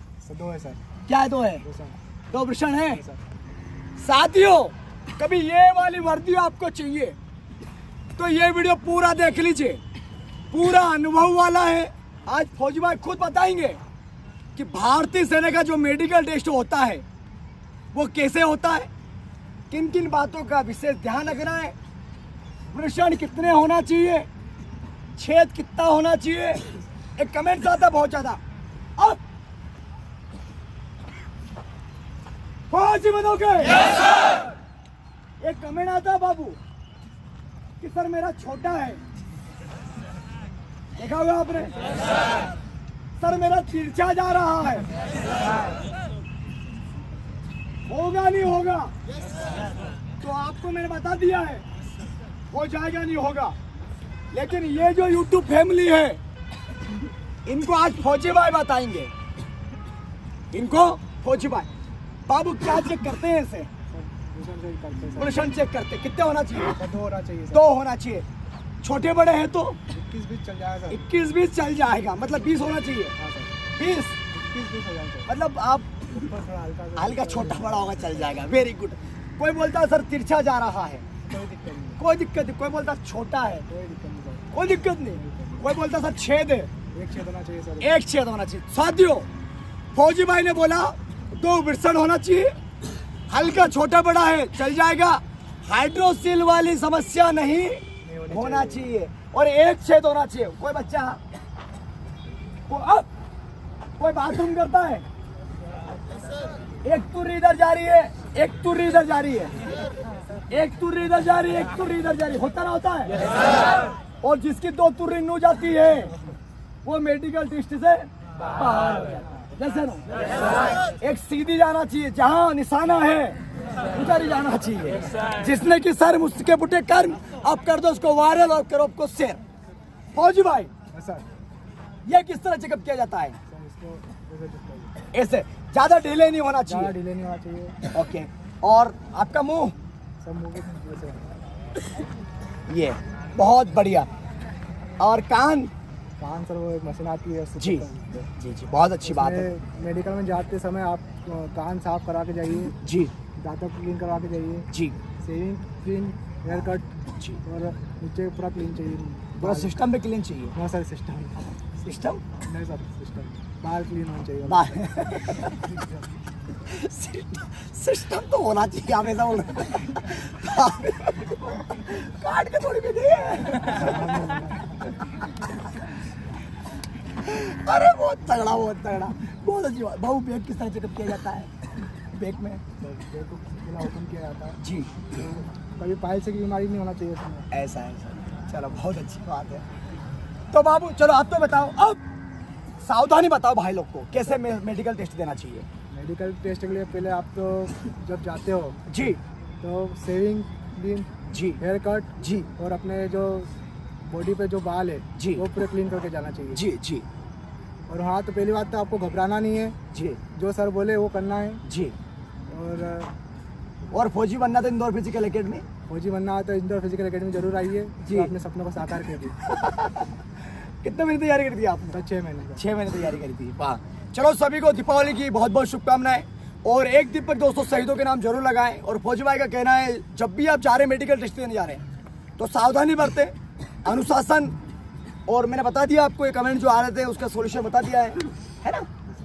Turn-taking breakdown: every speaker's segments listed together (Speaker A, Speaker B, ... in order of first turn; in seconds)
Speaker A: 0.2-0.8, 1.6-1.9, 2.8-3.2, 63.9-65.5, 66.8-67.7, 69.9-71.1, 73.2-73.6, 74.3-75.4, 76.1-78.5, 81.2-82.0, 83.7-85.7, 86.9-88.0, 98.0-98.9, 130.9-131.2, 133.5-134.9, 136.7-137.8, 140.2-141.3, 146.2-148.3, 149.0-152.7, 153.4-154.7, 155.2-156.9, 157.4-159.8, 160.5-161.5, 162.4-164.8, 173.7-174.9, 182.8-184.6, 185.1-187.5, 195.9-198.8, 199.6-203.5, 204.1-206.6, 207.9-209.8, 210.3-211.6, 212.5-213.1, 215.9-219.4, 221.9-222.6
Speaker B: 1.1-1.6, 2.3-3.0, 4.0-7.1, 8.2-9.8, 10.5-13.8, 14.5-17.0, 17.9-18.9, 19.7-21.7, 22.7-24.2, 25.1-26.6, 27.2-28.4, 32.7-33.9, 35.4-36.6, 37.8-39.0, 41.0-41.7, 43.2-44.9, 47.9-48.9, 50.2-51.6, 52.5-53.5, 54.3-56.2, 57.5-59.1, 60.5-61.7, 62.3-63.7, 65.2-66.8, 67.5-68.2, 68.8-69.8, 70.9-73.1, 73.8-74.2, 75.3-76.0, 76.9-81.0, 82.0-83.7, 84.5-86.7, 87.8-89.3, 89.9-92.5, 93.3-101.2, 102.7-103.1, 104.0-105.0, 106.8-109.5, 110.5-113.2, 114.2-116.1, 116.8-118.1, 118.6-120.0, 121.0-123.4, 123.9-129.4, 130.1-130.7, 132.1-133.4, 135.1-136.9, 137.9-139.7, 142.7-144.1, 145.0-145.7, 147.6-147.8, 148.3-149.5, 152.8-153.1, 159.4-160.5, 161.8-162.2, 164.5-165.6, 166.7-174.1, 177.2-181.5, 182.1-182.6, 184.6-184.9, 187.5-189.6, 190.5-192.0, 192.8-195.7, 198.9-199.2, 201.3-201.6, 202.2-202.5, 205.2-205.4, 206.5-207.0, 209.9-210.2, 211.6-211.9, 213.9-215.6, 218.0-218.3, 219.4-220.1, 220.8-222.0, 222.6-231.8, 232.4-233.3, 233.8-234.5, 235.3-238.9